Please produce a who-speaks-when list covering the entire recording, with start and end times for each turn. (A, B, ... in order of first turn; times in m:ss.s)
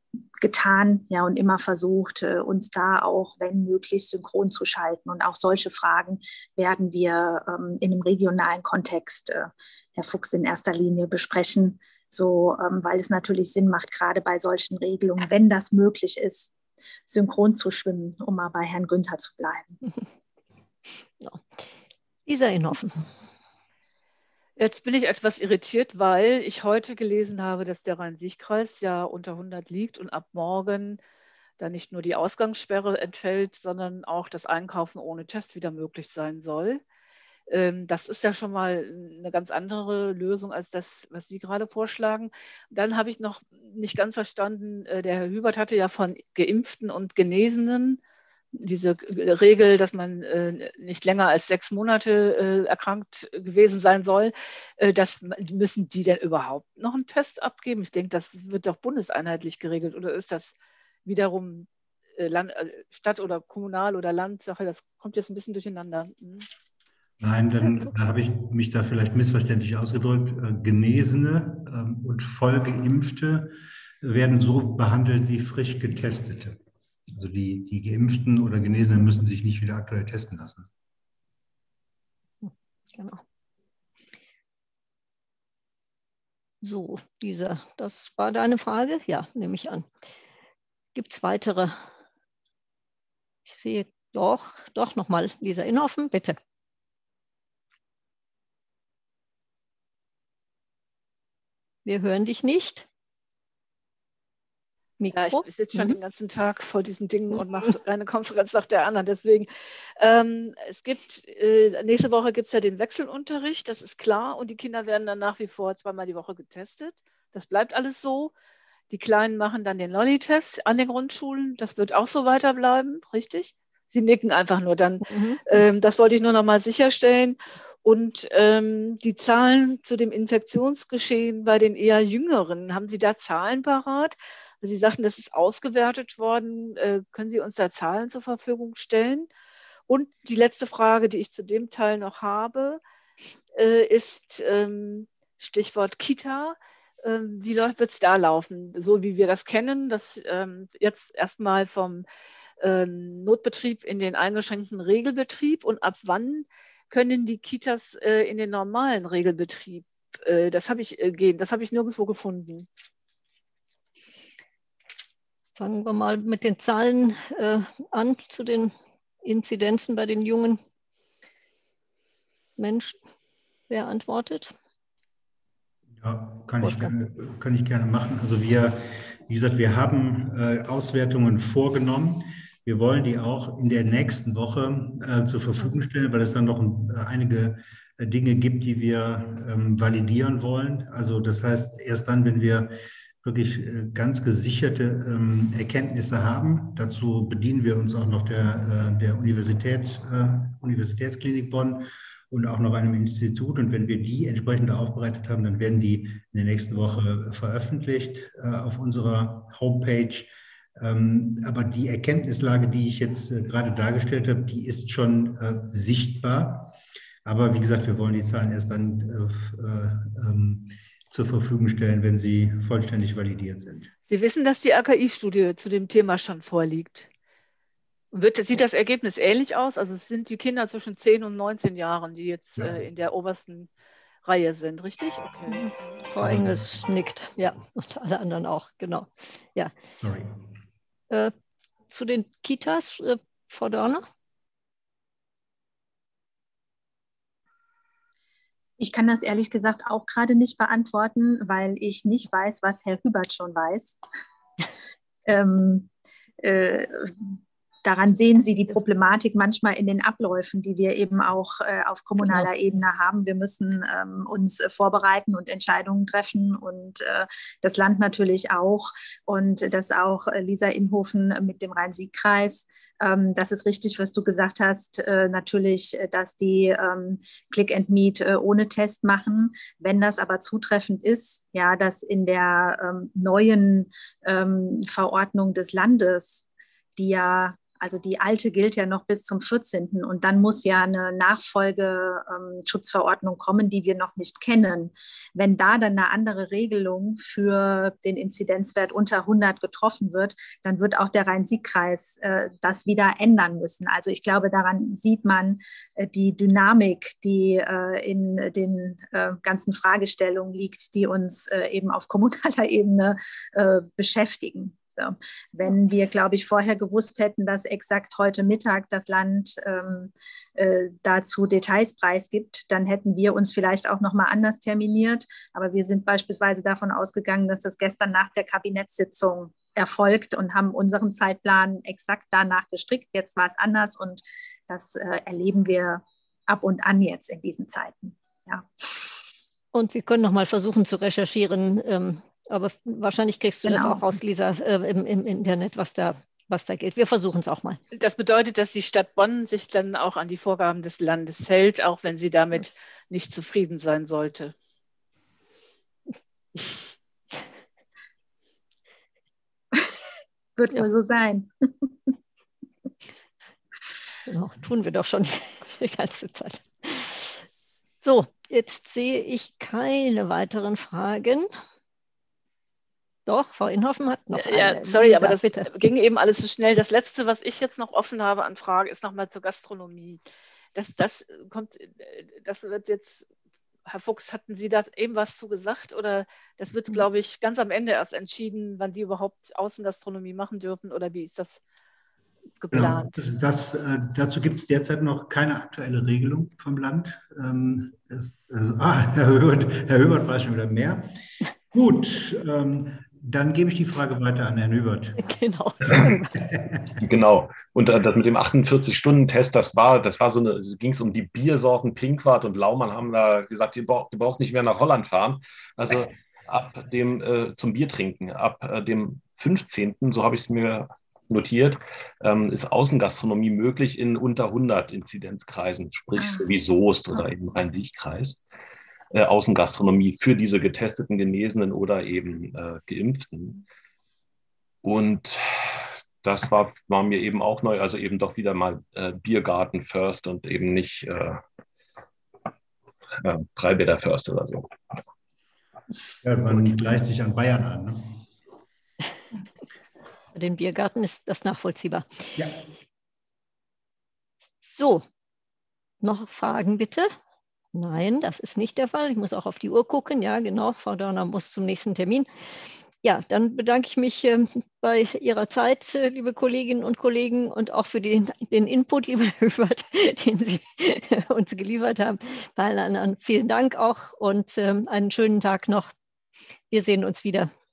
0:00.4-0:16.5 A
0:17.0-0:19.8 A
0:21.2-0:21.6 B
0:22.3-0:23.1 B
0:24.6-0:31.0 C
0:31.6-0:36.8 C
0:37.5-0:48.0 C
0:48.5-1:06.5 C
1:07.2-1:16.6 D
1:17.1-1:20.7 D
1:22.4-1:23.2 B
1:26.6-1:29.9 B
1:30.9-1:31.8 B
1:33.5-1:36.4 B
1:41.8-1:42.9 B
1:45.0-1:46.0 B
1:45.1-1:58.3 C
1:58.9-2:19.3 C
2:05.0-2:05.4 B
2:19.9-2:22.8 C
2:23.5-2:32.0 C
2:32.6-2:42.7 C
2:45.6-2:50.6 B
2:52.6-2:53.0 B
2:53.7-2:54.5 B
2:56.0-3:36.7 D
2:56.6-2:56.9 B
3:37.2-3:43.9 D
3:44.1-3:47.1 C
3:48.1-3:53.7 C
3:54.2-3:55.9 C
3:55.5-3:59.7 B
3:56.2-3:56.6 D
4:00.0-4:00.3 D
4:01.9-4:04.0 B
4:08.8-4:14.0 A
4:15.2-4:15.9 A
4:16.4-4:46.4 A
4:47.0-5:39.0 A
5:39.7-5:47.8 B
5:43.6-5:44.0 A
5:47.9-5:54.5 C
6:00.6-6:01.5 A
6:04.2-6:07.4 B
6:08.0-6:11.5 B
6:13.3-6:15.7 B
6:14.3-6:20.2 C
6:20.7-6:23.3 C
6:23.9-6:31.6 C
6:32.6-6:33.2 C
6:32.7-6:41.1 D
6:41.7-6:45.2 D
6:45.2-6:46.4 B
6:45.8-6:46.6 D
6:47.0-7:08.4 E
7:09.1-7:13.6 E
7:14.8-7:21.4 E
7:23.2-7:24.7 E
7:26.2-7:28.2 D
7:30.3-7:32.4 B
7:34.6-7:35.0 B
7:36.0-7:37.1 B
7:37.7-7:42.3 B
7:43.0-7:55.9 B
7:56.7-7:57.5 B